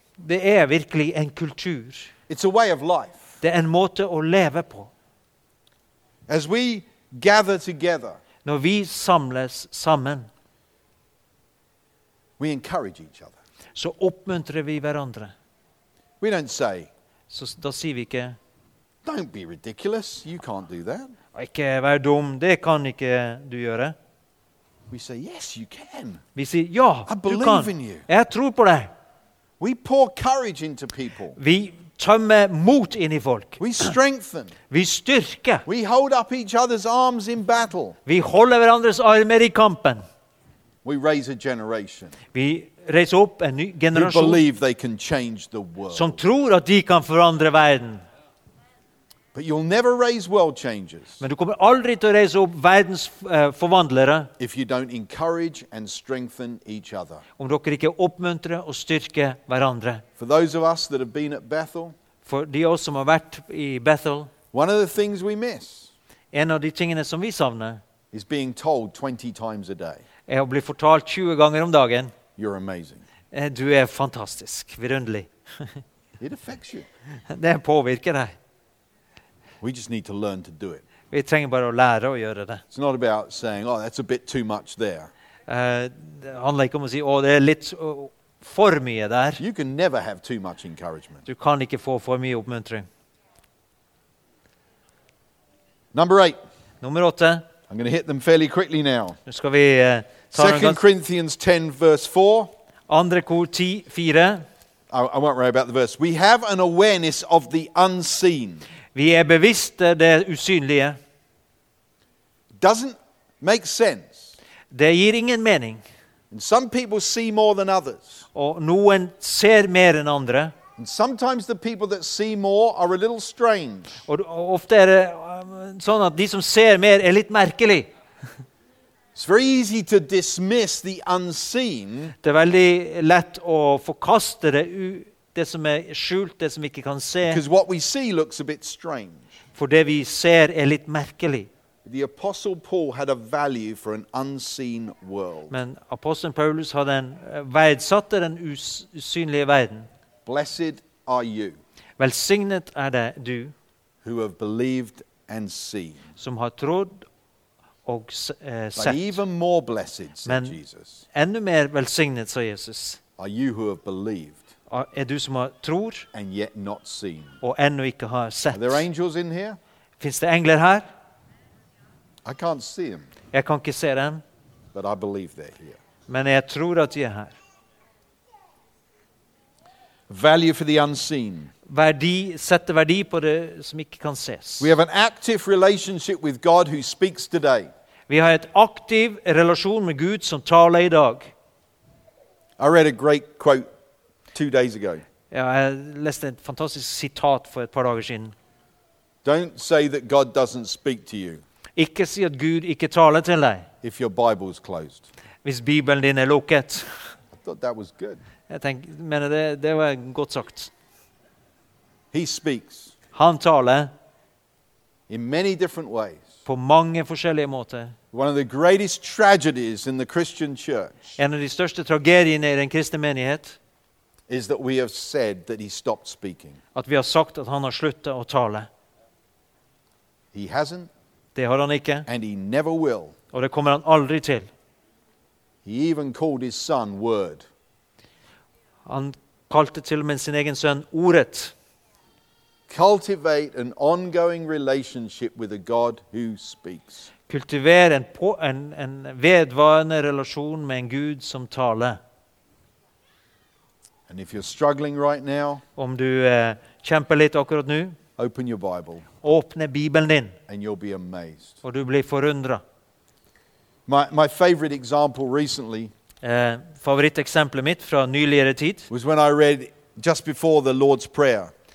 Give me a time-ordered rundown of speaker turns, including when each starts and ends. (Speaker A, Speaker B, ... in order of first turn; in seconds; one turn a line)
Speaker A: 0.2-2.1
Speaker B: 2.3-3.3
Speaker A: 3.4-4.9
Speaker B: 6.3-8.2
Speaker A: 8.4-10.3
Speaker B: 12.4-13.4
Speaker A: 13.8-15.3
Speaker B: 16.2-16.9
Speaker A: 17.3-18.4
Speaker B: 19.1-21.1
Speaker A: 21.4-23.9
Speaker B: 24.9-26.2
Speaker A: 26.4-28.9
Speaker B: 27.1-28.1
Speaker B: 29.6-31.4
Speaker A: 31.4-34.0
Speaker B: 33.6-34.5
Speaker A: 34.7-35.6
Speaker B: 35.7-38.0
Speaker A: 38.1-40.0
Speaker B: 40.8-42.1
Speaker A: 42.3-44.4
Speaker B: 43.9-46.2
Speaker A: 45.9-48.0
Speaker B: 49.3-51.2
Speaker A: 51.2-54.3
Speaker B: 54.4-57.2
Speaker A: 57.4-60.0
Speaker B: 60.2-62.0
Speaker A: 62.2-64.3
Speaker B: 64.5-65.9
Speaker A: 66.3-67.8
Speaker B: 68.1-70.0
Speaker A: 70.3-72.1
Speaker B: 72.4-73.0
Speaker A: 73.3-75.8
Speaker B: 76.2-76.9
Speaker A: 77.3-78.4
Speaker B: 79.6-80.8
Speaker A: 81.1-82.6
Speaker B: 82.7-85.1
Speaker A: 85.5-89.4
Speaker B: 89.4-91.2
Speaker A: 91.2-92.9
Speaker B: 95.9-96.4
Speaker A: 96.8-97.5
Speaker B: 97.7-99.2
Speaker A: 99.3-100.8
Speaker B: 100.3-102.5
Speaker A: 102.9-104.5
Speaker B: 104.9-108.7
Speaker A: 108.9-111.0
Speaker B: 112.6-114.3
Speaker A: 114.7-115.8
Speaker B: 116.3-118.2
Speaker A: 118.3-120.5
Speaker B: 120.8-124.0
Speaker A: 124.1-127.9
Speaker B: 129.2-132.1
Speaker A: 132.2-137.4
Speaker B: 137.2-139.3
Speaker A: 139.6-141.5
Speaker B: 141.8-145.5
Speaker A: 145.5-149.9
Speaker B: 150.3-151.6
Speaker A: 152.0-153.5
Speaker B: 154.0-156.0
Speaker A: 156.2-157.1
Speaker A: 157.9-159.2
Speaker B: 158.8-161.0
Speaker A: 160.2-160.6
Speaker A: 161.1-163.0
Speaker B: 163.2-164.5
Speaker A: 164.7-166.1
Speaker B: 166.1-167.4
Speaker A: 167.4-168.8
Speaker B: 168.5-169.6
Speaker A: 170.0-170.9
Speaker B: 172.2-173.1
Speaker A: 173.3-174.2
Speaker B: 174.7-175.8
Speaker A: 176.1-177.4
Speaker B: 180.1-181.5
Speaker A: 181.7-184.8
Speaker B: 184.6-187.7
Speaker A: 188.1-191.3
Speaker B: 192.6-193.7
Speaker B: 194.3-195.0
Speaker A: 195.3-198.3
Speaker B: 199.2-201.4
Speaker A: 201.8-203.7
Speaker B: 203.8-205.1
Speaker A: 205.4-207.0
Speaker B: 207.3-208.2
Speaker A: 208.5-210.7
Speaker B: 212.1-212.9
Speaker A: 213.1-213.9
Speaker B: 215.1-216.3
Speaker A: 216.5-217.9
Speaker B: 218.1-221.2
Speaker A: 221.2-223.6
Speaker B: 224.3-226.6
Speaker A: 226.8-228.7
Speaker B: 230.3-230.9
Speaker A: 231.3-232.1
Speaker B: 232.1-233.1
Speaker A: 233.3-234.5
Speaker B: 235.7-237.4
Speaker A: 238.9-241.5
Speaker B: 242.7-247.1
Speaker A: 247.3-252.0
Speaker B: 254.1-255.6
Speaker A: 255.8-258.0
Speaker B: 258.2-259.1
Speaker A: 259.2-260.4
Speaker B: 260.5-261.6
Speaker A: 261.6-262.6
Speaker B: 263.9-265.9
Speaker A: 266.2-268.9
Speaker B: 268.9-271.5